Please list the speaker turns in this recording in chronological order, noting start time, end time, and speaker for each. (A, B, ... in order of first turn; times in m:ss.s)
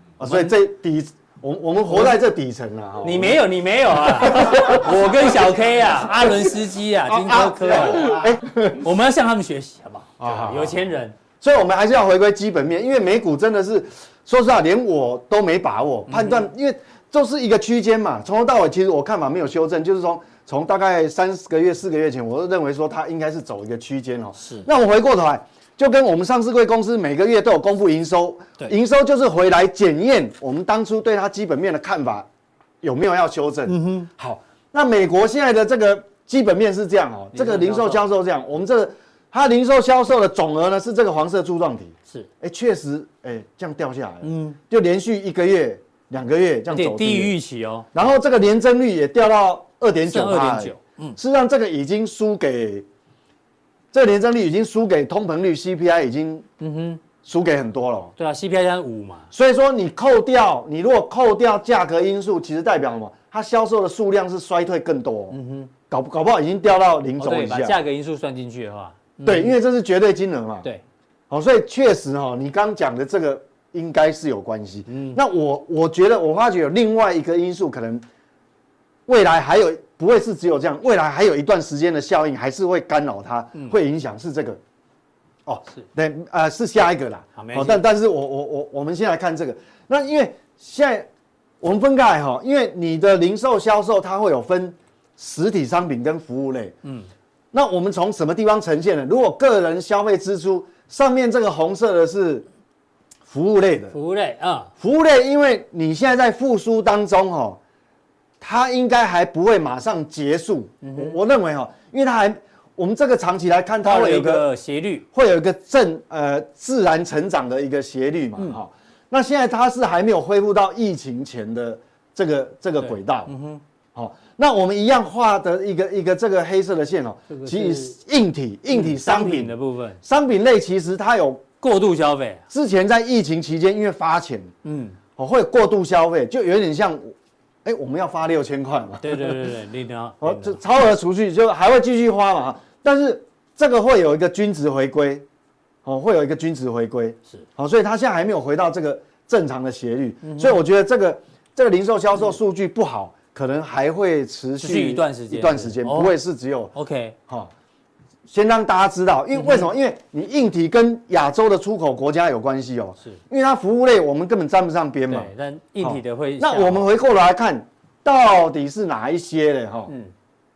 0:00.2-0:03.4 A
0:00.2-0:00.5 B
0:03.0-0:11.2 B
0:04.0-0:08.8 A
0:10.2-0:10.8 A
0:11.4-0:32.3 A
0:16.1-0:16.5 B
0:24.4-0:24.7 B
0:32.8-0:47.4 A
0:33.7-0:34.1 B
0:37.3-0:38.0 B
0:44.2-0:44.6 B
0:46.7-0:47.9 B
0:47.9-0:52.9 A
0:50.1-0:51.2 B
0:53.9-0:56.5 A
0:56.6-0:57.0 B
0:57.2-0:58.1 A
0:58.2-0:59.3 B
0:59.3-1:05.4 A
1:05.3-1:05.7 B
1:05.9-1:07.8 A
1:07.2-1:09.6 B
1:09.2-1:10.7 A
1:11.3-1:18.0 A
1:14.9-1:15.2 B
1:19.1-1:24.6 A
1:25.5-1:31.1 A
1:27.4-1:27.8 B
1:31.6-1:36.8 A
1:36.8-1:37.1 B
1:37.5-1:42.5 A
1:43.2-1:44.0 A
1:43.9-1:44.7 B
1:44.8-1:47.6 A
1:48.4-1:54.5 A
1:50.8-1:51.2 B
1:53.8-1:55.1 B
1:55.1-2:03.3 A
2:02.8-2:03.6 B
2:04.0-2:11.4 A
2:07.3-2:08.0 B
2:08.7-2:10.0 B
2:11.6-2:12.4 B
2:12.5-2:14.5 A
2:14.6-2:15.0 B
2:15.2-2:19.5 A
2:19.0-2:20.6 B
2:20.2-2:25.3 A
2:25.8-2:36.7 A
2:30.2-2:30.6 B
2:34.6-2:36.1 B
2:36.7-2:37.2 B
2:38.3-2:49.9 A
2:39.3-2:39.7 B
2:45.1-2:46.9 B